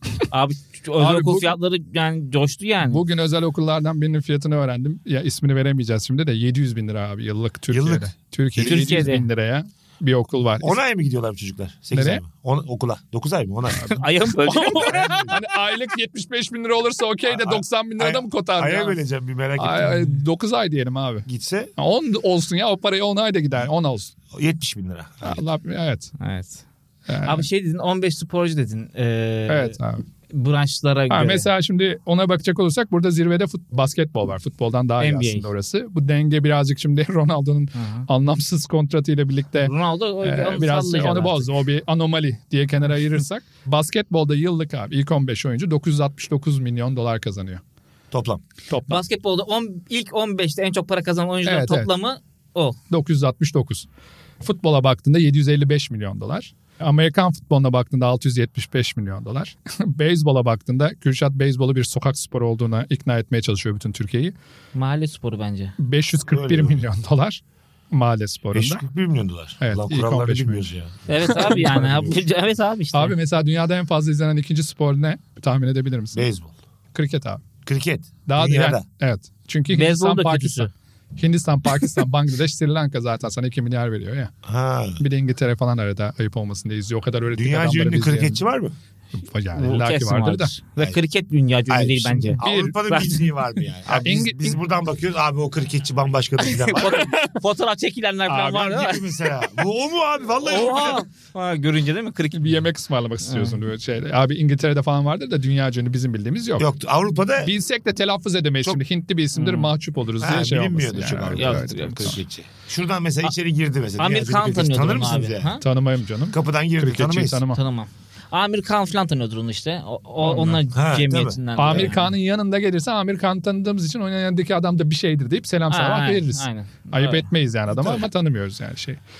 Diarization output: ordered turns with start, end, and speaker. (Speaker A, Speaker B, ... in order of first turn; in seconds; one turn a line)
Speaker A: 0.3-3.0
Speaker B: 1.0-1.6
Speaker B: 2.9-10.8
Speaker C: 7.7-8.9
Speaker A: 8.6-9.3
Speaker C: 10.6-13.9
Speaker B: 11.9-12.2
Speaker B: 13.8-19.0
Speaker A: 13.8-15.5
Speaker C: 14.8-15.4
Speaker C: 17.3-20.1
Speaker B: 19.6-24.1
Speaker C: 21.3-21.7
Speaker C: 24.3-25.4
Speaker B: 25.2-26.1
Speaker A: 26.2-26.6
Speaker B: 27.1-27.5
Speaker A: 27.2-29.8
Speaker B: 29.5-30.0
Speaker A: 30.3-31.5
Speaker B: 31.1-47.6
Speaker A: 35.0-35.5
Speaker A: 37.8-38.1
Speaker A: 39.6-41.5
Speaker C: 48.1-48.4
Speaker B: 48.7-49.0
Speaker A: 48.9-52.8
Speaker B: 51.5-51.9
Speaker B: 52.9-53.9
Speaker B: 54.4-64.3
Speaker A: 64.8-65.7
Speaker B: 65.8-67.4
Speaker C: 66.3-66.8
Speaker B: 67.9-68.8
Speaker C: 68.5-72.2
Speaker B: 69.6-70.7
Speaker A: 71.1-73.1
Speaker B: 71.3-71.7
Speaker B: 72.9-76.3
Speaker C: 76.1-76.5
Speaker B: 76.9-77.5
Speaker C: 77.7-78.8
Speaker B: 78.3-84.3
Speaker A: 79.7-80.7
Speaker C: 84.5-85.0
Speaker B: 85.0-88.4
Speaker C: 87.3-88.7
Speaker B: 89.2-90.5
Speaker A: 89.5-93.2
Speaker C: 91.7-97.1
Speaker B: 92.4-93.0
Speaker B: 93.9-94.6
Speaker A: 96.5-99.0
Speaker B: 96.9-97.3
Speaker B: 98.3-98.8
Speaker C: 98.5-101.0
Speaker A: 100.4-102.6
Speaker B: 102.3-106.8
Speaker A: 103.2-103.6
Speaker C: 106.6-107.5
Speaker B: 107.4-112.2
Speaker A: 109.3-109.7
Speaker C: 110.2-115.5
Speaker A: 111.4-112.2
Speaker A: 114.0-115.6
Speaker B: 115.6-117.6
Speaker C: 116.3-117.4
Speaker A: 117.5-122.1
Speaker B: 120.2-120.6
Speaker C: 120.7-122.0
Speaker B: 121.6-129.0
Speaker A: 125.7-127.3
Speaker C: 127.7-128.0